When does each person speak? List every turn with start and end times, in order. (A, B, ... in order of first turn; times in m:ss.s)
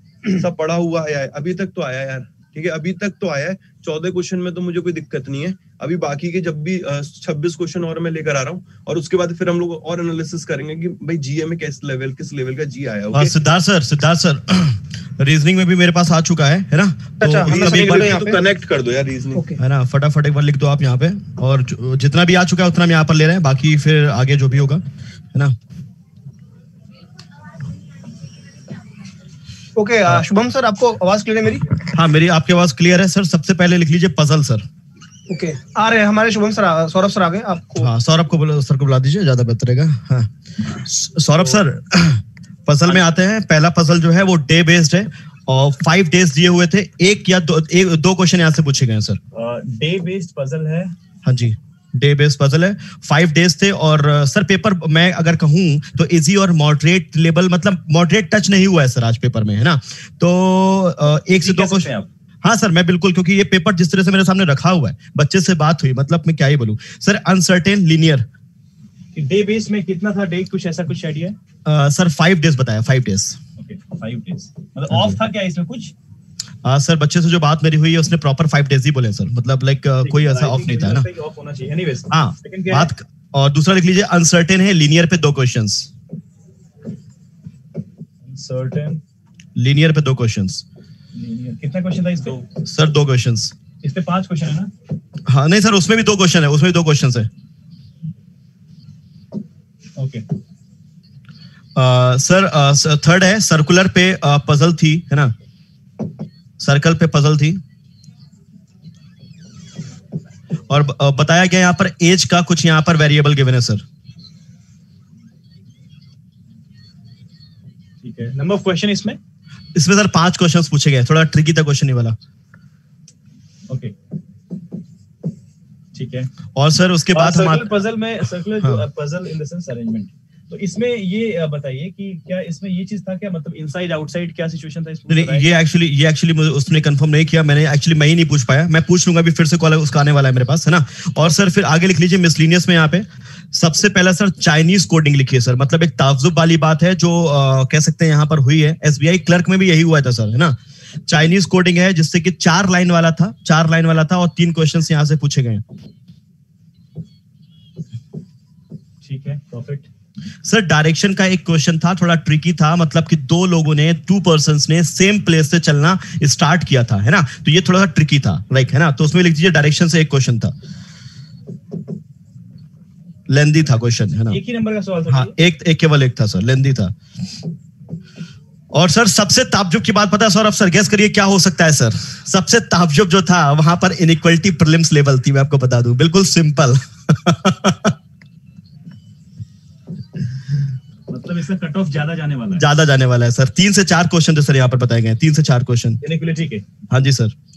0:00.3-0:13.3 A
0:13.1-0:17.9 B
0:17.2-0:18.4 C
0:17.4-0:19.4 A
0:19.3-0:19.6 C
0:19.6-0:25.6 B
0:29.8-0:31.7 C
0:31.9-0:34.7 B
0:35.3-0:37.9 C
0:37.8-0:49.2 B
0:42.8-0:43.1 D
0:49.3-0:51.0 D
0:51.2-1:01.9 B
1:01.3-1:02.1 D
1:02.4-1:08.3 B
1:09.2-1:11.4 D
1:11.6-1:13.4 B
1:13.6-1:15.9 D
1:14.9-1:15.2 B
1:16.6-1:21.1 B
1:20.0-1:22.9 D
1:22.1-1:25.9 B
1:28.2-1:29.0 D
1:29.6-1:30.6 B
1:31.1-1:32.5 D
1:32.6-1:33.5 B
1:33.8-1:34.7 D
1:35.3-1:37.3 B
1:40.0-1:40.2 D
1:41.8-1:45.4 B
1:46.6-1:47.6 B
1:50.7-1:53.8 B
1:58.0-1:59.2 D
1:59.7-2:02.2 B
2:03.7-2:03.9 D
2:05.9-2:06.3 D
2:06.6-2:07.8 B
2:07.1-2:15.5 D
2:15.1-2:35.6 B
2:39.0-2:39.9 D
2:40.4-2:50.5 B
2:53.3-2:54.4 B
2:54.3-2:55.4 D
2:55.1-2:57.0 B
2:58.7-3:08.0 B
3:11.1-3:12.6 D
3:12.6-3:16.0 B
3:16.0-3:16.6 D
3:16.9-3:17.3 B